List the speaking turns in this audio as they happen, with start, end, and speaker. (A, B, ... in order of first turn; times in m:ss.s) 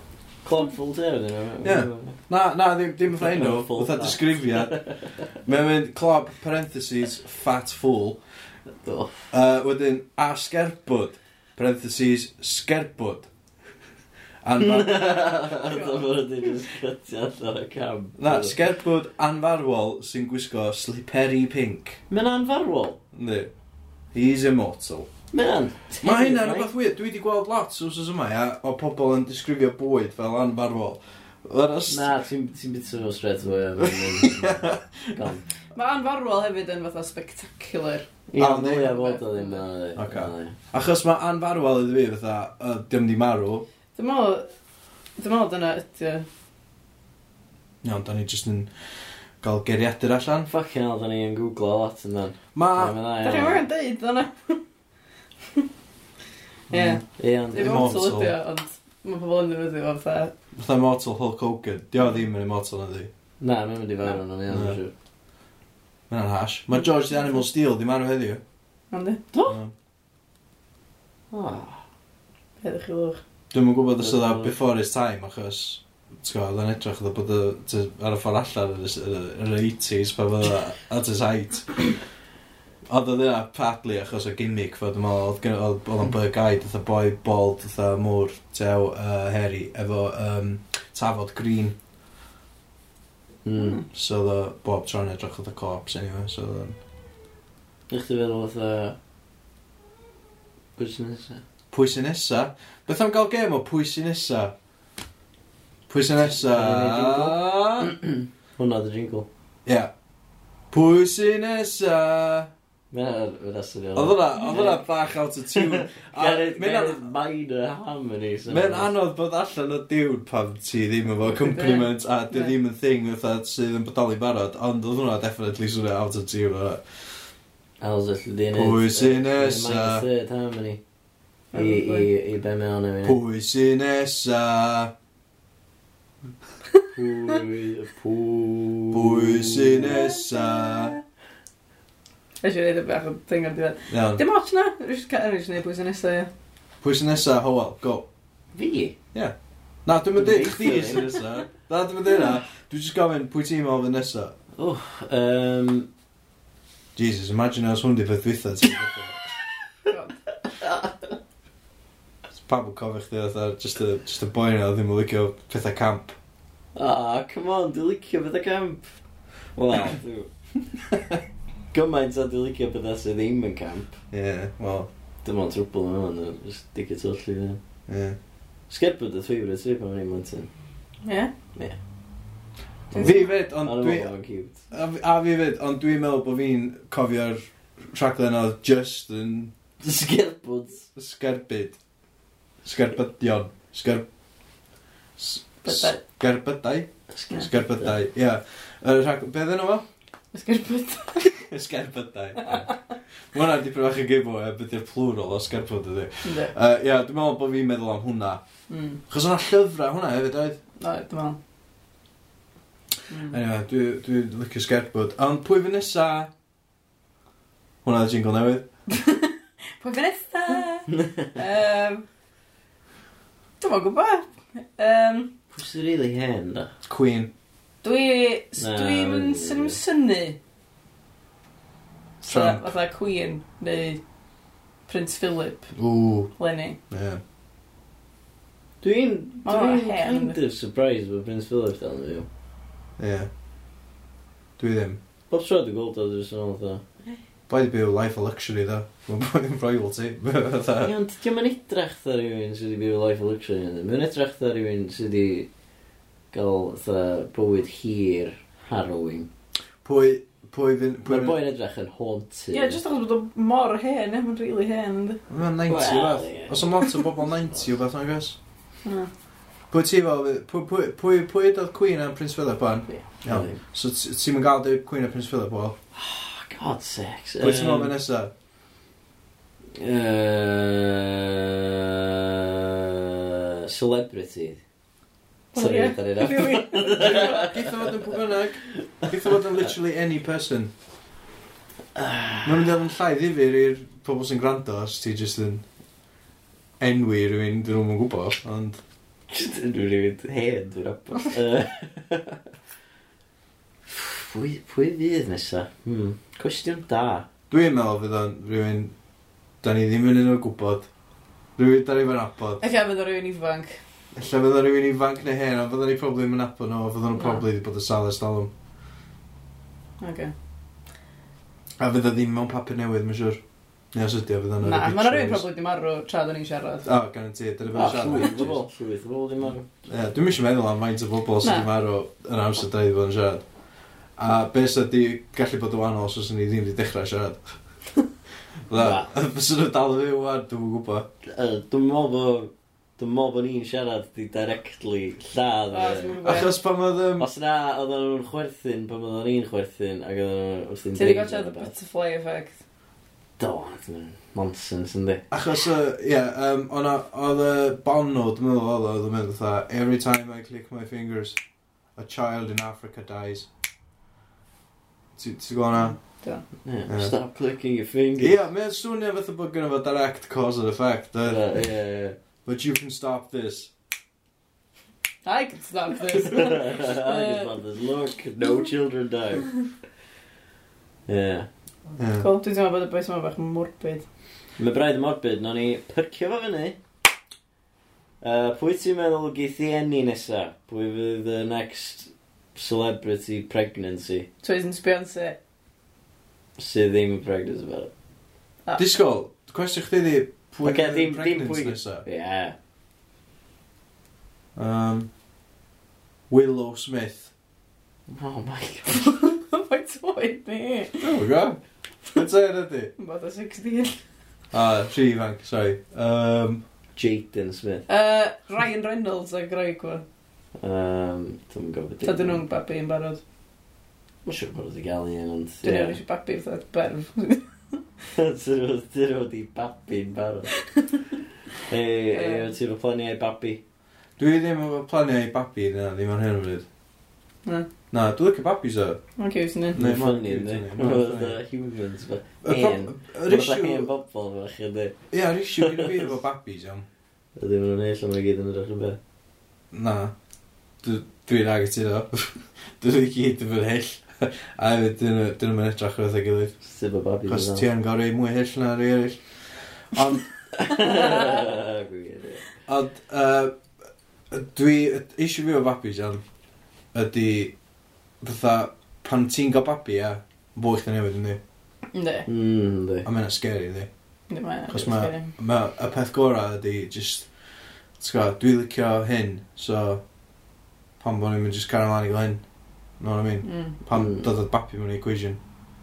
0:00.4-0:02.2 A
0:01.6-0:04.8 B
0:03.1-0:05.0 A
0:05.4-0:08.2 B
0:08.8-0:09.3 A
0:09.3-0:13.3 B
0:14.4-0:15.3 B
0:14.6-0:18.6 A
0:15.7-0:16.0 C
0:18.2-0:22.0 B
0:22.1-0:23.0 A
0:23.1-0:23.5 B
0:24.1-0:25.1 B
0:25.3-0:26.7 A
0:26.0-0:32.1 B
0:31.9-0:35.4 A
0:34.0-0:35.1 B
0:35.7-0:39.6 C
0:38.3-0:40.6 A
0:38.4-0:38.9 B
0:40.0-0:43.6 B
0:44.0-0:44.4 C
0:45.2-0:46.3 C
0:47.8-0:48.7 B
0:49.4-0:50.5 B
0:50.5-0:53.6 A
0:52.5-0:53.0 B
0:53.2-0:54.6 C
0:56.7-0:57.0 B
0:56.7-1:00.3 C
0:57.2-0:58.0 A
0:57.6-0:58.3 B
1:00.5-1:03.1 B
1:03.4-1:04.9 A
1:04.5-1:04.8 B
1:06.1-1:08.4 B
1:08.9-1:09.2 C
1:09.3-1:09.6 A
1:09.5-1:09.7 B
1:11.3-1:11.8 A
1:12.6-1:13.2 C
1:13.5-1:22.0 B
1:14.0-1:14.5 A
1:22.9-1:31.7 B
1:33.4-1:33.8 A
1:33.9-1:36.8 B
1:37.9-1:39.0 A
1:40.8-1:41.4 A
1:41.7-1:44.5 B
1:45.9-1:47.9 B
1:46.2-1:49.3 A
1:49.6-1:49.9 B
1:50.7-1:52.5 B
1:52.9-1:54.8 A
1:54.0-1:57.1 B
1:55.5-1:58.9 A
1:58.5-2:06.8 B
2:01.2-2:02.5 C
2:07.8-2:10.8 A
2:08.5-2:10.0 B
2:11.5-2:12.1 C
2:11.5-2:13.2 A
2:13.0-2:14.9 B
2:16.9-2:20.1 A
2:18.9-2:21.0 B
2:19.9-2:20.9 C
2:22.4-2:26.3 C
2:23.9-2:24.2 B
2:26.8-2:28.0 B
2:28.5-2:29.0 A
2:29.8-2:34.3 B
2:30.2-2:31.2 A
2:34.6-2:35.9 A
2:37.0-2:39.2 B
2:39.9-2:40.1 C
2:40.4-2:40.9 A
2:42.3-2:46.2 B
2:46.7-2:48.9 A
2:49.5-2:50.3 A
2:51.7-2:54.0 A
2:54.1-2:54.9 B
2:55.2-2:57.6 A
2:57.9-2:58.2 B
2:58.7-3:00.5 A
3:01.0-3:01.3 C
3:02.9-3:04.6 A
3:02.9-3:03.3 C
3:02.9-3:04.1 B
3:04.7-3:09.5 B
3:09.8-3:10.9 A
3:11.0-3:11.8 B
3:12.6-3:14.0 B
3:15.2-3:19.8 B
3:15.6-3:16.0 C
3:17.1-3:17.9 A
3:20.3-3:21.4 C
3:21.4-3:22.7 B
3:23.3-3:28.4 B
3:26.2-3:26.5 C
3:28.7-3:29.0 C
3:29.1-3:30.6 B
3:30.8-3:31.4 C
3:33.1-3:33.4 C
3:33.3-3:36.3 B
3:37.8-3:38.6 B
3:38.9-3:42.0 C
3:40.9-3:41.4 A
3:43.6-3:45.3 C
3:45.5-3:46.7 A
3:46.9-3:47.3 B
3:47.8-3:50.4 C
3:48.6-3:49.8 A
3:52.2-3:54.0 C
3:52.2-3:52.7 B
3:54.9-3:55.7 C
3:55.8-3:56.3 B
3:56.4-3:56.8 C
3:56.9-3:57.2 B
3:58.8-4:02.3 A
3:59.4-4:00.4 C
4:03.0-4:03.3 B
4:04.6-4:05.0 B
4:05.3-4:07.2 A
4:07.5-4:10.9 B
4:10.8-4:15.5 A
4:16.3-4:19.3 A
4:19.8-4:21.4 B
4:21.0-4:22.8 A
4:22.5-4:25.2 C
4:25.3-4:28.4 B
4:25.7-4:27.0 A
4:29.7-4:35.8 B
4:32.9-4:33.6 A
4:35.9-4:38.0 A
4:37.4-4:38.3 B
4:39.8-4:44.6 A
4:45.5-4:47.5 C
4:45.6-4:47.7 A
4:46.9-4:50.7 B
4:51.9-4:52.6 A
4:52.4-4:55.6 B
4:56.8-4:58.8 B
4:59.3-5:02.4 A
5:03.8-5:07.3 A
5:07.5-5:08.9 B
5:09.6-5:10.9 B
5:11.6-5:12.6 B
5:12.6-5:13.8 C
5:14.1-5:18.5 B
5:17.1-5:17.4 C
5:20.0-5:20.3 C
5:21.8-5:23.4 B
5:23.9-5:25.4 B
5:24.6-5:26.8 C
5:26.8-5:28.6 B
5:27.7-5:29.7 A
5:29.9-5:33.4 B
5:31.4-5:31.7 C
5:34.2-5:37.6 B
5:38.7-5:41.1 B
5:38.8-5:39.1 A
5:41.2-5:46.2 A
5:45.7-5:46.5 C
5:46.2-5:47.3 B
5:47.2-5:51.7 A
5:51.0-5:52.6 C
5:53.4-5:55.2 A
5:55.3-6:01.4 B
6:02.0-6:03.5 B
6:05.2-6:06.0 B
6:05.7-6:06.4 C
6:06.6-6:08.4 A
6:06.9-6:07.2 B
6:08.2-6:11.4 B
6:11.2-6:12.2 A
6:12.4-6:13.7 B
6:15.2-6:17.5 C
6:16.2-6:19.5 A
6:21.1-6:21.5 A
6:22.0-6:22.3 B
6:22.2-6:24.0 C
6:24.6-6:26.8 A
6:28.2-6:34.3 A
6:34.4-6:35.4 C
6:36.6-6:37.9 A
6:38.8-6:42.0 B
6:40.6-6:42.6 A
6:44.6-6:45.1 B
6:46.3-6:47.3 B
6:48.1-6:49.1 A
6:48.9-6:51.2 C
6:51.0-6:51.6 B
6:52.1-6:52.9 B
6:53.0-6:54.0 C
6:54.5-6:56.6 B
6:57.0-6:57.8 A
6:57.9-7:00.0 C
7:00.6-7:02.4 A
7:02.0-7:03.2 C
7:04.2-7:06.0 A
7:05.6-7:07.8 C
7:08.1-7:10.5 A
7:10.6-7:10.8 C
7:11.7-7:13.6 A
7:12.1-7:12.5 C
7:14.2-7:16.6 B
7:17.9-7:19.0 B
7:19.2-7:19.8 C
7:19.7-7:21.4 B
7:19.7-7:25.0 A
7:22.4-7:23.9 B
7:25.1-7:26.8 B
7:25.6-7:26.0 A
7:27.4-7:29.0 A
7:29.7-7:30.1 B
7:30.8-7:36.5 B
7:36.6-7:37.6 A
7:37.3-7:39.2 B
7:39.9-7:40.5 B
7:40.5-7:42.4 A
7:42.7-7:43.5 B
7:44.3-7:46.2 B
7:46.9-7:47.5 B
7:48.2-7:51.4 B
7:51.9-7:52.3 C
7:52.2-7:53.1 A
7:53.0-7:53.9 B
7:54.3-7:55.3 C
7:54.7-7:57.3 B
7:58.0-8:00.0 B
8:01.0-8:02.4 B
8:03.0-8:05.4 B
8:03.4-8:03.8 C
8:03.9-8:04.2 A